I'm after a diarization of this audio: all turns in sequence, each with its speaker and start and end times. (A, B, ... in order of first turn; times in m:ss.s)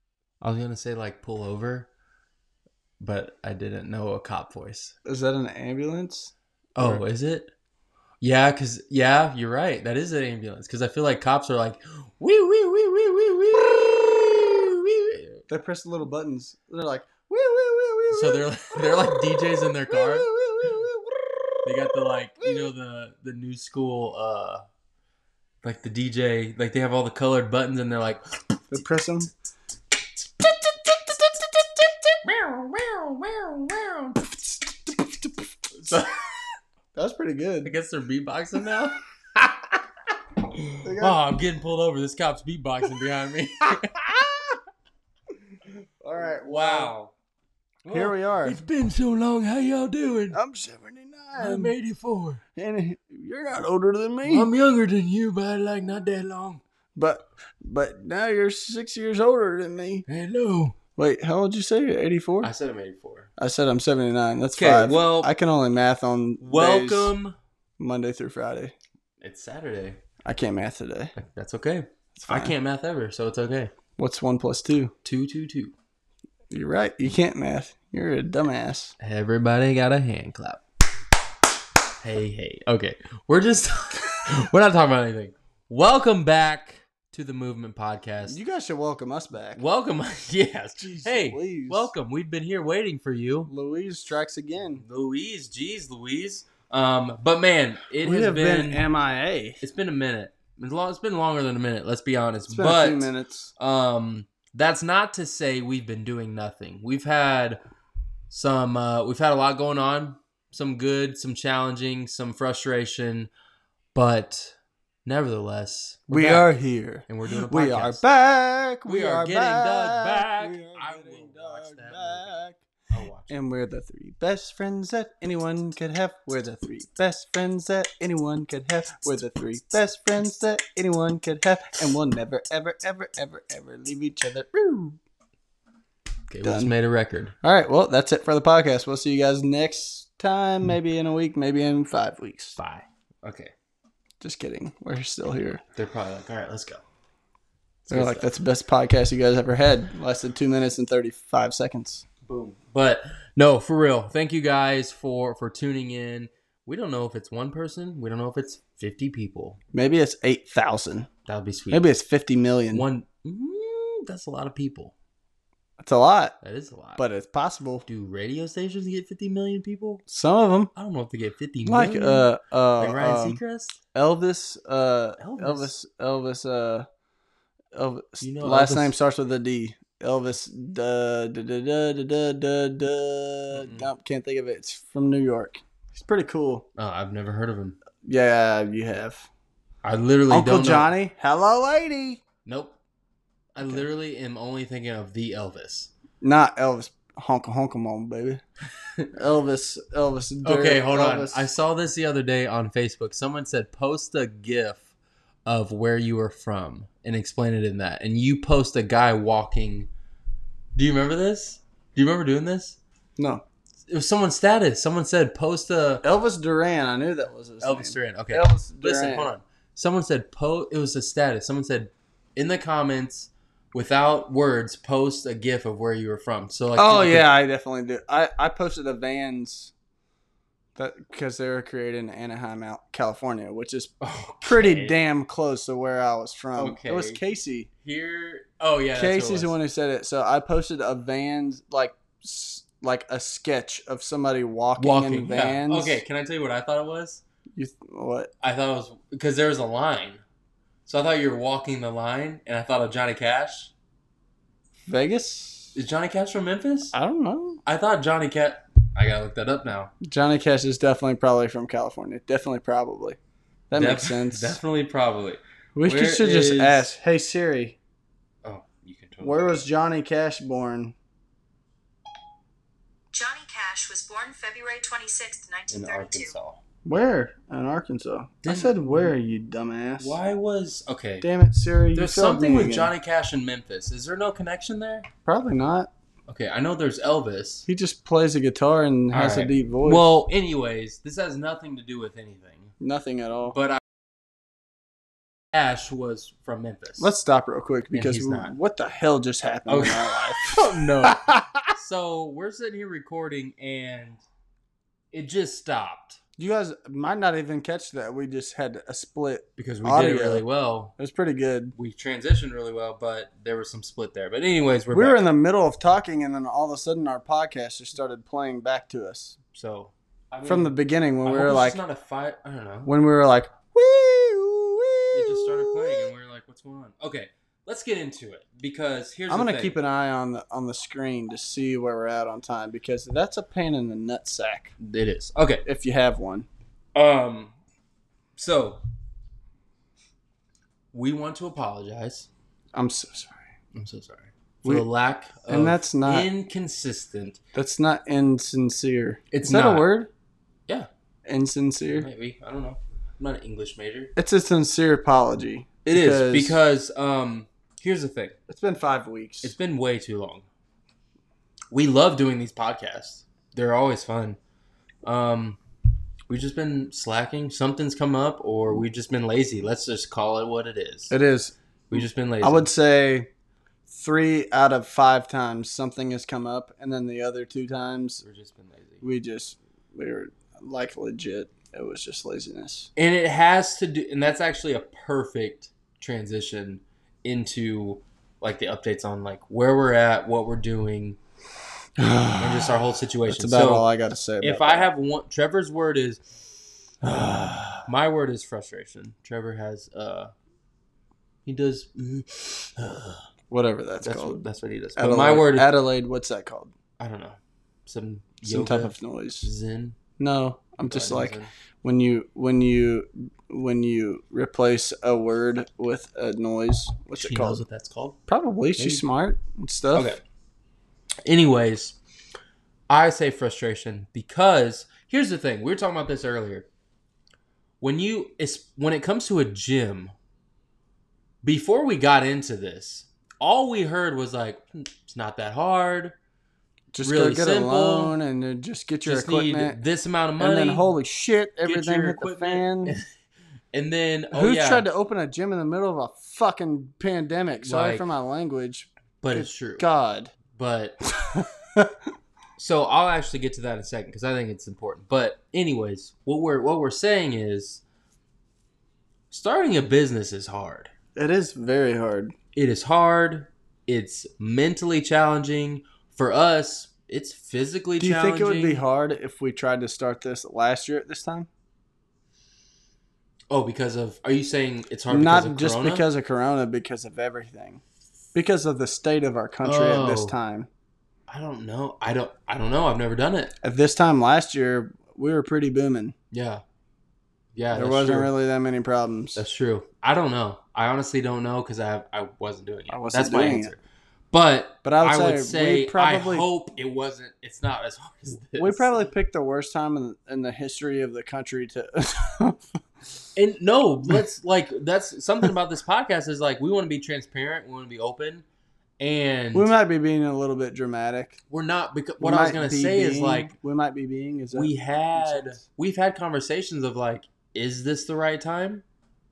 0:00.4-0:01.9 A
0:03.0-0:04.9 A
0:05.0-0:07.0 B
0:06.8-0:07.5 A
0:08.2-0:15.4 A
0:15.5-0:22.7 B
0:18.1-0:20.3 A
0:21.6-0:24.6 A
0:25.6-0:28.8 A
0:28.7-0:29.3 B
0:30.4-0:34.2 A
0:34.9-0:36.0 B
0:35.8-0:36.2 A
0:36.9-0:37.7 B
0:37.6-0:44.3 A
0:40.8-0:41.2 B
0:46.0-0:46.9 B
0:46.2-0:47.1 A
0:47.8-0:50.4 A
0:47.9-0:48.6 B
0:50.3-0:51.7 B
0:51.4-0:52.4 A
0:52.6-0:54.5 B
0:54.2-0:56.6 A
0:56.9-1:00.0 B
1:00.1-1:00.8 A
1:01.0-1:02.5 B
1:02.4-1:03.3 A
1:03.4-1:07.1 B
1:04.6-1:05.3 A
1:06.4-1:07.4 A
1:07.8-1:08.7 B
1:09.2-1:10.0 A
1:10.2-1:11.1 B
1:11.2-1:13.7 A
1:12.2-1:12.5 B
1:14.0-1:14.9 B
1:15.0-1:15.7 A
1:16.5-1:18.9 B
1:19.0-1:20.6 A
1:22.0-1:28.4 A
1:28.2-1:29.6 B
1:29.5-1:33.5 A
1:30.8-1:31.9 B
1:33.5-1:34.8 B
1:34.8-1:38.8 A
1:38.0-1:39.6 B
1:39.6-1:47.6 A
1:42.5-1:43.5 B
1:48.3-1:53.3 A
1:53.9-1:56.5 A
1:56.1-2:02.6 B
1:57.1-1:58.0 A
1:58.9-2:03.3 A
2:03.3-2:15.0 B
2:16.3-2:17.3 A
2:16.4-2:16.7 B
2:17.4-2:22.6 B
2:22.6-2:23.5 A
2:24.2-2:25.6 B
2:25.7-2:26.8 A
2:27.8-2:28.3 A
2:27.9-2:32.0 B
2:32.2-2:39.6 A
2:39.7-2:41.1 B
2:41.2-2:41.9 A
2:41.7-2:42.8 B
2:42.7-2:44.9 A
2:45.8-2:46.4 B
2:46.4-2:47.0 A
2:47.0-2:47.9 B
2:47.9-2:50.0 A
2:50.1-2:50.7 B
2:50.7-2:53.8 A
2:51.6-2:53.4 B
2:53.9-2:56.9 B
2:55.2-2:55.7 A
2:57.7-3:06.6 B
2:58.2-2:58.9 A
3:03.5-3:03.9 A
3:06.8-3:07.8 A
3:08.0-3:09.3 B
3:09.8-3:10.9 A
3:10.3-3:12.2 B
3:12.4-3:12.8 A
3:13.5-3:15.9 A
3:16.2-3:18.4 B
3:19.1-3:21.5 B
3:20.4-3:24.9 A
3:25.4-3:29.9 A
3:30.7-3:32.8 A
3:33.2-3:33.4 B
3:33.9-3:36.0 A
3:36.0-3:39.3 B
3:37.6-3:47.3 A
3:46.8-3:49.7 B
3:50.8-3:53.9 B
3:54.0-3:55.0 A
3:54.4-3:57.7 B
3:56.6-3:57.2 A
3:57.8-3:59.5 A
3:58.9-4:06.0 B
4:04.8-4:07.2 A
4:07.6-4:08.3 B
4:08.4-4:10.2 A
4:10.8-4:13.7 A
4:14.8-4:15.8 B
4:15.7-4:16.9 A
4:16.9-4:17.6 B
4:17.6-4:19.9 A
4:20.0-4:23.2 B
4:23.7-4:24.6 B
4:23.7-4:26.9 A
4:25.8-4:27.8 B
4:28.4-4:29.6 A
4:29.2-4:30.9 B
4:33.1-4:36.3 C
4:35.7-4:36.6 A
4:36.8-4:40.2 B
4:38.4-4:39.1 A
4:40.0-4:41.2 A
4:41.2-4:42.9 B
4:41.9-4:45.1 A
4:45.2-4:45.9 B
4:46.3-4:47.6 A
4:47.6-4:50.0 B
4:49.1-4:52.7 A
4:52.8-4:53.6 B
4:53.5-4:53.8 A
4:55.5-4:57.1 A
4:57.0-5:01.5 B
4:57.9-4:58.5 A
4:59.7-5:04.2 A
5:05.1-5:06.2 A
5:06.4-5:10.4 B
5:09.6-5:10.9 A
5:11.0-5:11.7 B
5:11.8-5:15.3 A
5:14.9-5:19.4 B
5:19.5-5:20.7 A
5:20.4-5:21.8 B
5:21.2-5:22.9 A
5:22.8-5:26.1 B
5:25.1-5:29.8 A
5:29.3-5:34.7 B
5:34.8-5:35.6 A
5:35.6-5:36.5 B
5:36.9-5:37.5 A
5:38.4-5:38.8 A
5:40.9-5:42.3 A
5:42.7-5:43.5 B
5:43.7-5:47.4 A
5:45.5-5:46.3 B
5:47.5-5:50.1 B
5:49.3-5:49.9 A
5:51.2-5:52.1 B
5:52.0-5:54.1 A
5:54.2-5:56.6 B
5:55.8-5:58.4 A
5:58.5-5:59.5 B
5:59.4-6:00.4 A
6:01.7-6:04.4 A
6:05.0-6:05.6 A
6:06.3-6:11.1 A
6:11.1-6:13.3 B
6:11.9-6:12.7 A
6:13.9-6:18.2 B
6:18.2-6:19.0 A
6:19.0-6:22.9 B
6:23.0-6:31.2 A
6:32.0-6:34.9 B
6:32.4-6:33.9 A
6:34.4-6:36.4 A
6:37.0-6:40.3 A
6:37.0-6:37.8 B
6:41.4-6:43.2 A
6:43.5-6:44.4 B
6:44.0-6:45.7 A
6:45.0-6:46.7 B
6:47.0-6:50.0 A
6:48.4-6:49.5 B
6:50.2-6:57.6 B
6:50.9-6:51.5 A
6:57.1-6:58.2 A
6:58.3-7:00.1 B
6:58.8-6:59.0 A
6:59.9-7:00.2 A
7:01.2-7:02.0 A
7:02.9-7:06.7 A
7:07.8-7:10.1 A
7:11.4-7:16.1 A
7:16.9-7:19.8 B
7:17.0-7:18.1 A
7:19.0-7:20.9 A
7:20.4-7:23.0 B
7:21.6-7:23.1 A
7:23.7-7:24.9 A
7:24.3-7:30.3 B
7:27.6-7:28.0 A
7:29.2-7:29.8 A
7:30.5-7:31.0 A
7:31.2-7:31.9 B
7:32.6-7:37.8 A
7:39.3-7:40.9 A
7:41.2-7:42.3 B
7:42.5-7:48.8 A
7:48.0-7:51.5 B
7:53.5-7:56.0 A
7:55.1-7:57.8 B
7:58.3-8:00.7 B
7:59.6-8:00.3 A
8:01.3-8:03.5 A
8:03.6-8:06.1 B
8:06.3-8:06.6 A
8:07.5-8:08.3 A
8:07.7-8:09.4 B
8:09.4-8:13.8 A
8:12.9-8:13.7 B
8:14.3-8:18.9 A
8:14.8-8:16.5 B
8:18.5-8:22.6 B
8:23.4-8:28.4 A
8:29.0-8:29.7 A
8:29.5-8:31.4 B
8:31.5-8:33.5 A
8:32.2-8:35.6 B
8:34.5-8:38.8 A